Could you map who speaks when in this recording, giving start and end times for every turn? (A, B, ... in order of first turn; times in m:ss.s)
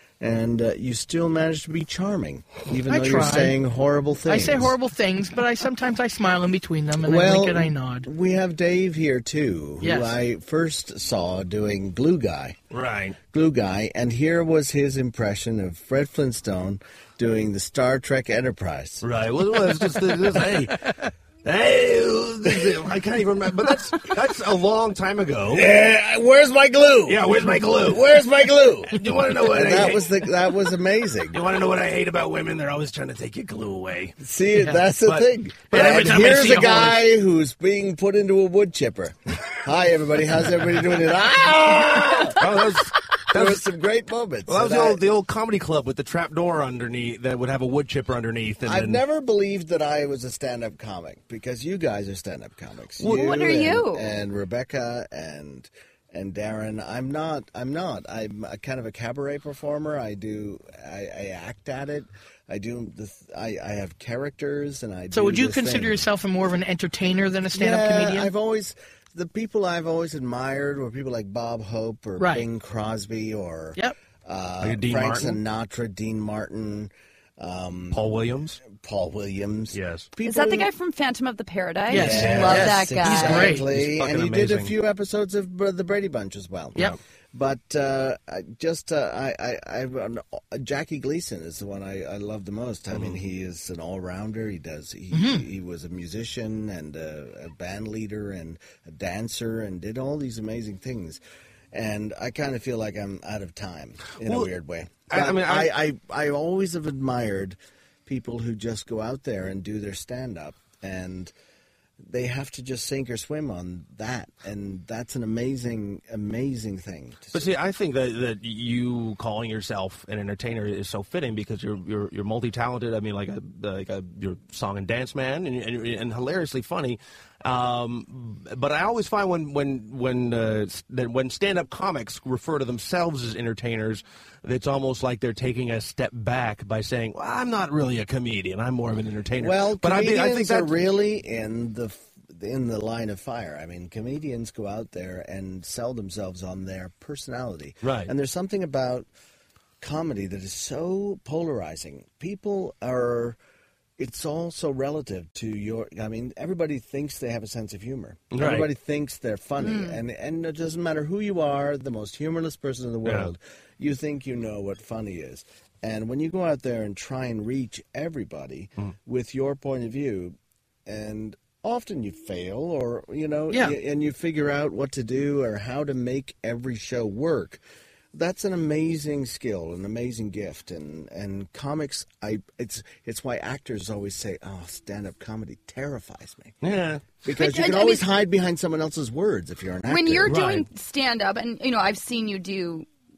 0:00.2-0:04.8 A
0:02.9-0:03.6 B
0:04.3-0:08.1 B
0:07.0-0:12.6 A
0:09.8-0:10.2 B
0:12.7-0:13.2 C
0:13.3-0:19.0 A
0:19.0-0:25.7 C
0:25.5-0:31.4 A
0:27.1-0:28.2 C
0:28.8-0:30.3 C
0:31.3-0:34.2 C
0:34.2-0:42.8 A
0:34.6-0:34.8 B
0:35.0-0:37.0 C
0:35.7-0:36.9 B
0:42.3-0:43.7 C
0:43.3-0:45.0 A
0:44.5-0:49.0 C
0:48.6-1:06.0 A
0:53.0-0:53.6 C
0:53.1-0:54.1 D
1:05.1-1:08.3 B
1:07.5-1:18.1 A
1:12.2-1:12.5 B
1:14.6-1:15.4 C
1:17.9-1:18.6 C
1:18.6-1:20.7 A
1:19.7-1:20.1 C
1:20.2-1:23.6 D
1:21.9-1:23.7 B
1:21.9-1:41.2 A
1:22.0-1:22.8 C
1:23.6-1:24.7 C
1:32.9-1:33.2 C
1:35.1-1:35.4 B
1:41.7-1:51.3 A
1:44.2-1:44.5 C
1:45.1-1:45.7 C
1:52.0-1:57.5 A
1:57.3-2:20.8 C
2:19.4-2:29.1 A
2:27.8-2:28.1 C
2:29.8-2:33.4 A
2:34.0-2:57.6 A
2:38.3-2:38.7 C
2:39.6-2:40.0 D
2:43.0-2:43.3 C
2:53.5-2:53.8 B
2:58.1-3:06.6 A
3:06.6-3:07.1 C
3:07.2-3:10.6 A
3:07.3-3:08.1 D
3:09.9-3:12.9 D
3:10.3-3:10.6 C